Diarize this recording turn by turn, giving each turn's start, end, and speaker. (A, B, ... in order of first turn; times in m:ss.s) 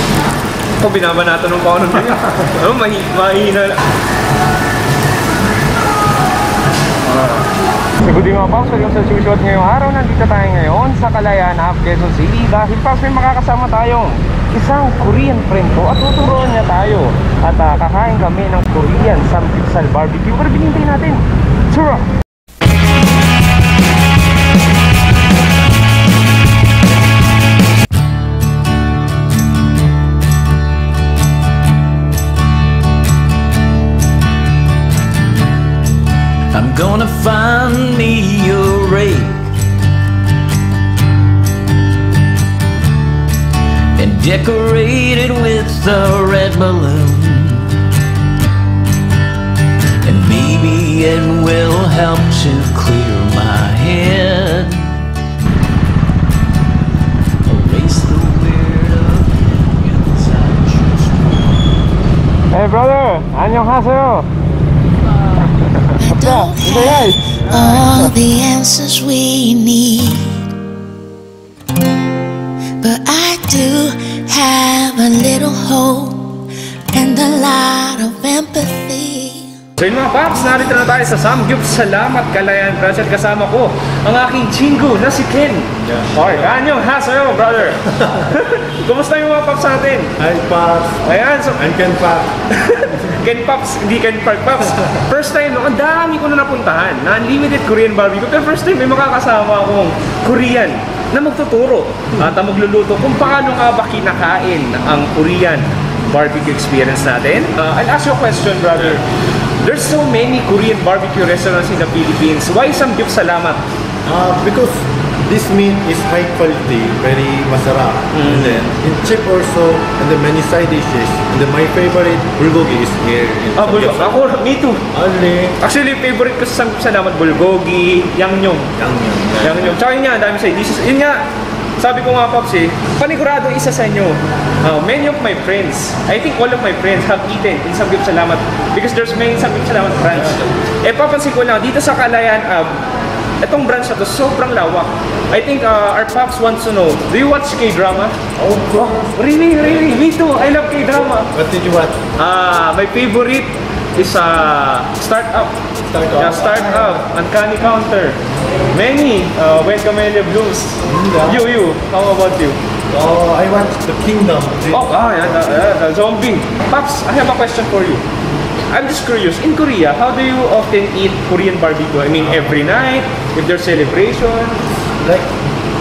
0:00.8-0:03.8 A
0:07.1-0:07.4 A
0:08.0-0:22.1 A
0:36.5-0:39.6 B
0:44.0-0:47.7 B
0:50.0-0:54.9 B
0:57.4-1:01.6 B
1:02.5-1:04.3 A
1:06.0-1:08.0 A
1:06.0-1:10.5 C
1:12.8-1:19.5 C
1:19.8-1:30.1 A
1:25.8-1:26.6 D
1:27.8-1:28.3 D
1:30.2-1:31.0 D
1:31.0-1:31.6 A
1:31.5-1:32.3 D
1:32.5-1:49.0 A
1:49.6-1:53.6 A
1:54.0-2:04.3 D
1:58.1-1:58.6 A
2:03.5-2:04.8 A
2:04.9-2:05.6 D
2:05.6-2:08.7 A
2:08.8-2:09.7 D
2:09.4-2:11.2 A
2:11.8-2:22.8 A
2:20.1-2:20.5 D
2:23.4-2:28.2 A
2:28.4-2:30.1 D
2:28.8-2:31.3 A
2:31.2-2:32.0 D
2:32.2-2:35.6 A
2:35.8-2:37.1 D
2:36.1-2:38.2 A
2:38.7-2:40.8 A
2:40.8-2:41.4 D
2:41.3-2:42.6 A
2:42.9-2:45.7 D
2:44.7-2:48.0 A
2:48.7-2:54.6 A
2:55.0-2:55.3 D